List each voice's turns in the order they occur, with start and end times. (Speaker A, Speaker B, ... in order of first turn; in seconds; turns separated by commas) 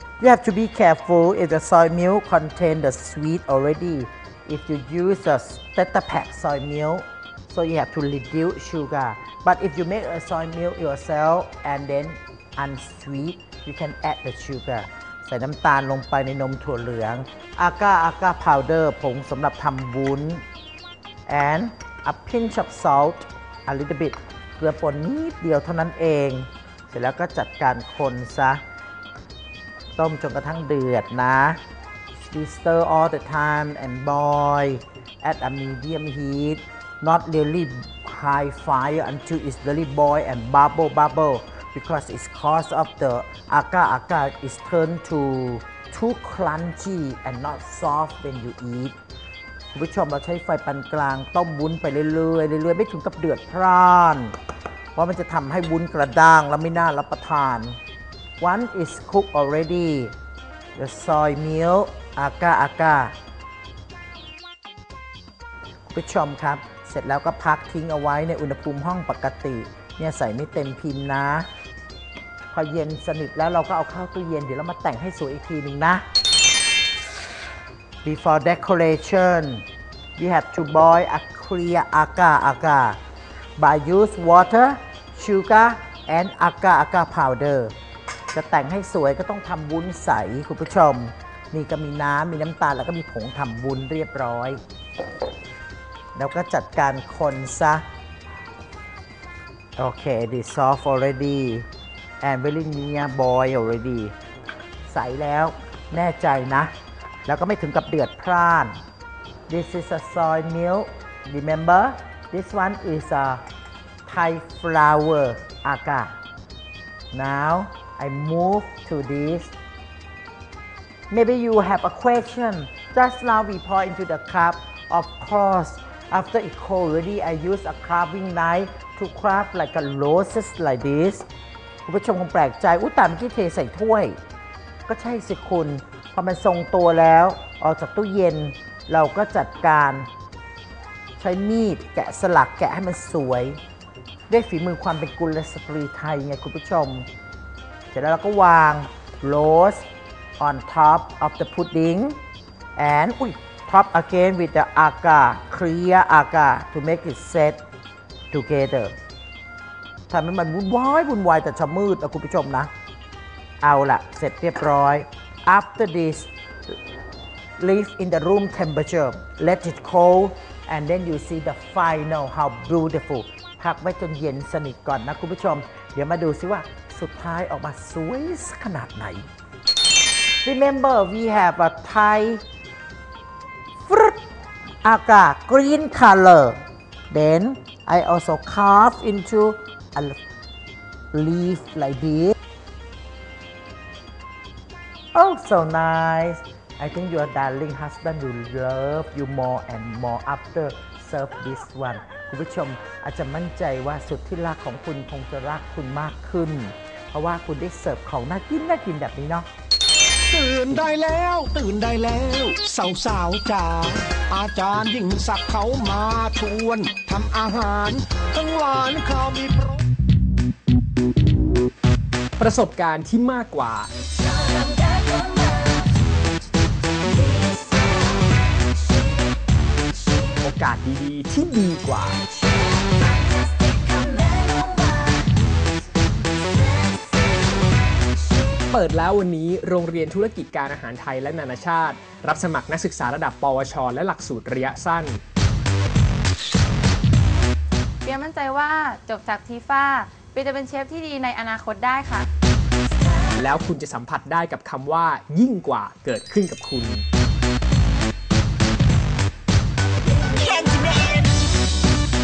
Speaker A: 0.2-20.4, Speaker A: 21.3-28.6, Speaker A: 30.0-31.6, Speaker A: 32.1-48.9, Speaker A: 49.7-54.4, Speaker A: 55.0-57.8, Speaker A: 58.4-60.1, Speaker A: 60.8-63.1, Speaker A: 65.9-71.5, Speaker A: 72.5-76.0, Speaker A: 78.0-79.6, Speaker A: 80.2-83.0, Speaker A: 83.6-87.7, Speaker A: 88.3-94.6, Speaker A: 96.1-97.8, Speaker A: 99.8-101.7, Speaker A: 102.2-104.1, Speaker A: 104.9-106.7, Speaker A: 107.2-108.7, Speaker A: 109.5-113.4, Speaker A: 114.0-116.1, Speaker A: 117.1-119.5, Speaker A: 121.1-131.2, Speaker A: 131.8-134.2, Speaker A: 134.9-140.1, Speaker A: 141.2-143.6, Speaker A: 144.3-147.1, Speaker A: 147.9-149.8, Speaker A: 150.4-152.2, Speaker A: 152.8-157.6, Speaker A: 158.3-158.9, Speaker A: 160.1-162.7, Speaker A: 163.6-166.8, Speaker A: 167.6-179.3, Speaker A: 180.4-182.4, Speaker A: 183.8-184.2, Speaker A: 184.8-186.6, Speaker A: 187.1-190.2, Speaker A: 191.1-192.3, Speaker A: 195.1-209.5, Speaker B: 210.3-219.8, Speaker C: 222.4-223.9, Speaker D: 224.4-225.9, Speaker D: 227.1-228.3, Speaker C: 230.4-232.4, Speaker D: 232.8-235.3, Speaker D: 236.5-237.5, Speaker C: 238.6-245.2, Speaker D: 248.0-252.3, Speaker C: 253.3-257.0, Speaker D: 260.2-261.2